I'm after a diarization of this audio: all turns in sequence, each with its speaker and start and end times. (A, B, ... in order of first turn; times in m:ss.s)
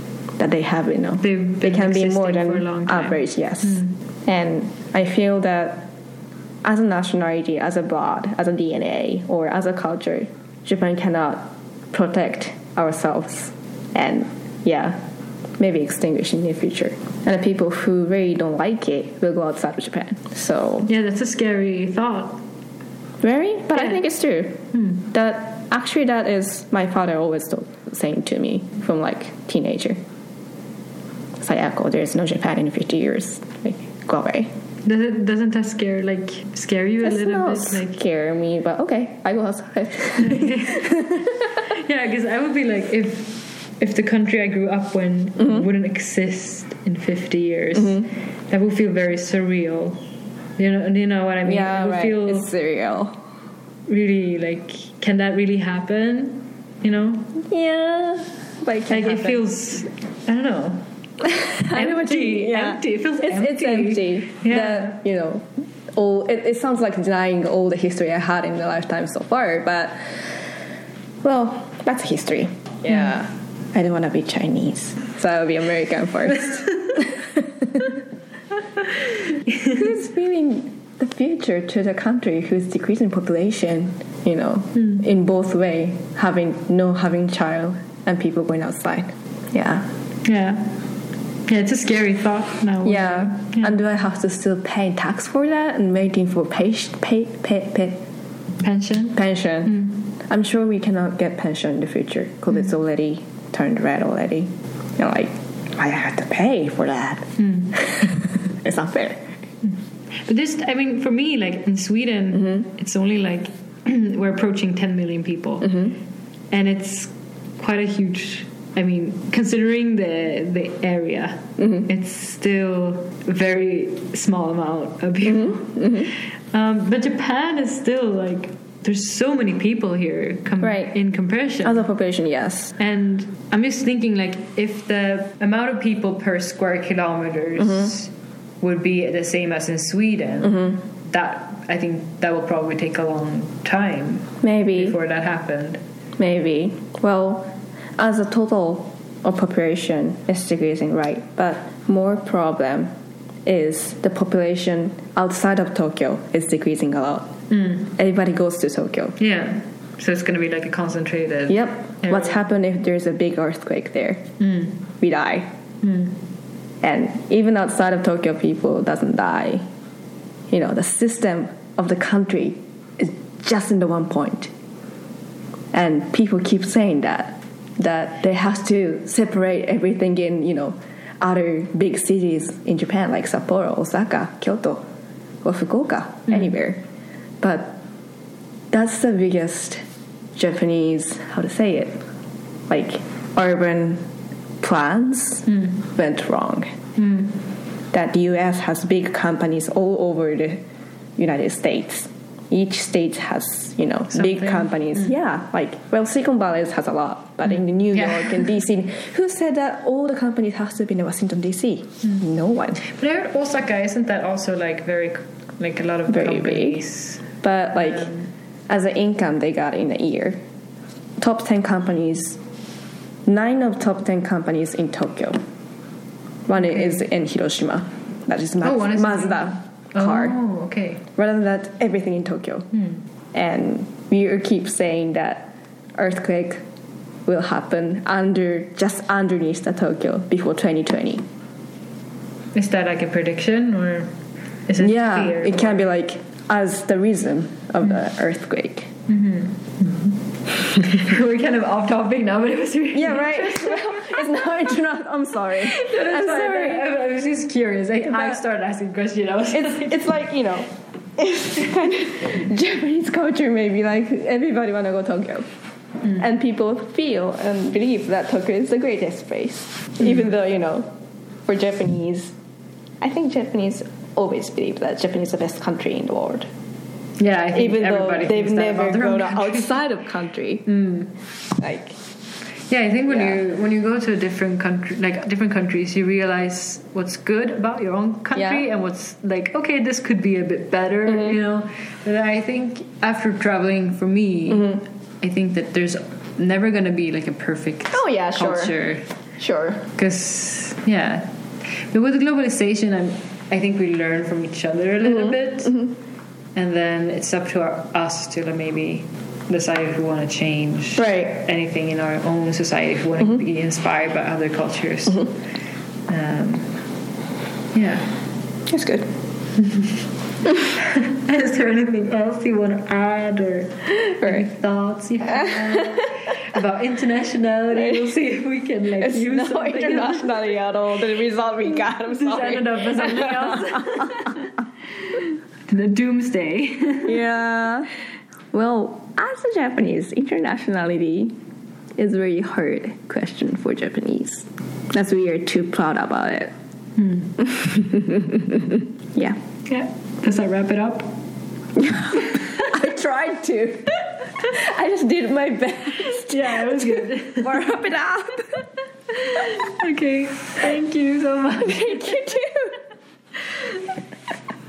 0:00.4-0:05.9 A
0:01.2-0:03.2 B
0:06.6-0:15.0 A
0:15.6-0:20.9 A
0:20.9-0:22.4 B
0:23.2-0:30.0 A
0:31.4-0:34.5 A
0:34.8-0:38.0 B
0:37.0-0:41.5 A
0:40.2-0:50.0 B
0:50.6-0:52.5 B
0:51.4-0:53.2 A
0:53.9-0:57.3 B
0:57.4-0:59.4 A
0:58.9-1:00.8 B
1:01.2-1:10.0 A
1:01.7-1:05.0 B
1:11.2-1:17.9 A
1:19.6-1:29.9 A
1:30.2-1:30.8 B
1:31.5-1:33.7 B
1:32.8-1:38.0 A
1:38.6-1:39.2 B
1:39.1-1:49.3 A
1:47.4-1:47.7 B
1:50.2-1:55.9 B
1:56.5-2:11.9 B
2:05.3-2:06.1 A
2:10.6-2:10.9 A
2:11.6-2:12.7 A
2:12.8-2:25.8 B
2:24.4-2:25.0 A
2:26.2-2:32.9 A
2:33.4-2:39.2 A
2:37.5-2:37.8 B
2:39.2-2:42.4 B
2:41.5-2:44.3 A
2:44.4-2:44.7 B
2:45.0-2:45.5 A
2:45.8-2:46.1 B
2:46.8-2:49.6 A
2:50.5-2:54.5 A
2:55.7-3:04.8 A
3:05.4-3:06.8 A
3:07.4-3:07.8 A
3:08.7-3:09.8 A
3:10.4-3:12.0 A
3:12.7-3:14.0 A
3:14.6-3:16.7 A
3:17.0-3:17.3 B
3:17.9-3:20.6 A
3:21.2-3:32.9 A
3:24.1-3:24.7 B
3:27.9-3:28.5 B
3:32.8-3:38.3 B
3:36.1-3:36.8 A
3:37.4-3:38.1 A
3:38.7-3:40.4 A
3:41.2-3:42.4 A
3:43.2-3:45.4 A
3:46.5-3:50.4 A
3:48.6-3:51.0 B
3:51.2-3:52.7 A
3:53.3-3:56.6 A
3:57.2-4:01.2 A
4:02.5-4:04.1 B
4:04.7-4:05.8 B
4:04.8-4:08.9 A
4:09.1-4:14.4 B
4:12.9-4:16.9 A
4:15.5-4:20.0 B
4:18.1-4:18.4 A
4:19.5-4:25.4 A
4:26.1-4:30.9 A
4:31.5-4:32.3 A
4:33.0-4:36.5 A
4:37.2-4:39.7 B
4:37.5-4:40.7 A
4:40.7-4:41.1 B
4:41.6-4:42.0 A
4:42.7-4:59.0 B
4:43.1-4:43.4 A
4:48.4-4:48.6 A
4:57.9-4:58.7 A
4:59.4-4:59.8 A
5:00.0-5:01.3 B
5:01.9-5:05.8 B
5:06.5-5:15.3 B
5:11.0-5:11.4 A
5:16.1-5:16.8 B
5:17.7-5:18.1 B
5:18.7-5:19.1 A
5:19.6-5:20.0 B
5:20.5-5:30.4 B
5:24.0-5:24.4 A
5:29.0-5:34.3 A
5:32.0-5:34.4 B
5:35.7-5:37.2 B
5:37.0-5:37.9 A
5:38.5-5:41.4 A
5:42.0-5:46.5 A
5:47.0-5:47.3 B
5:47.4-5:49.4 A
5:49.7-5:51.1 B
5:51.8-5:58.6 A
5:56.0-5:57.6 B
5:59.1-6:02.2 B
6:01.6-6:02.8 A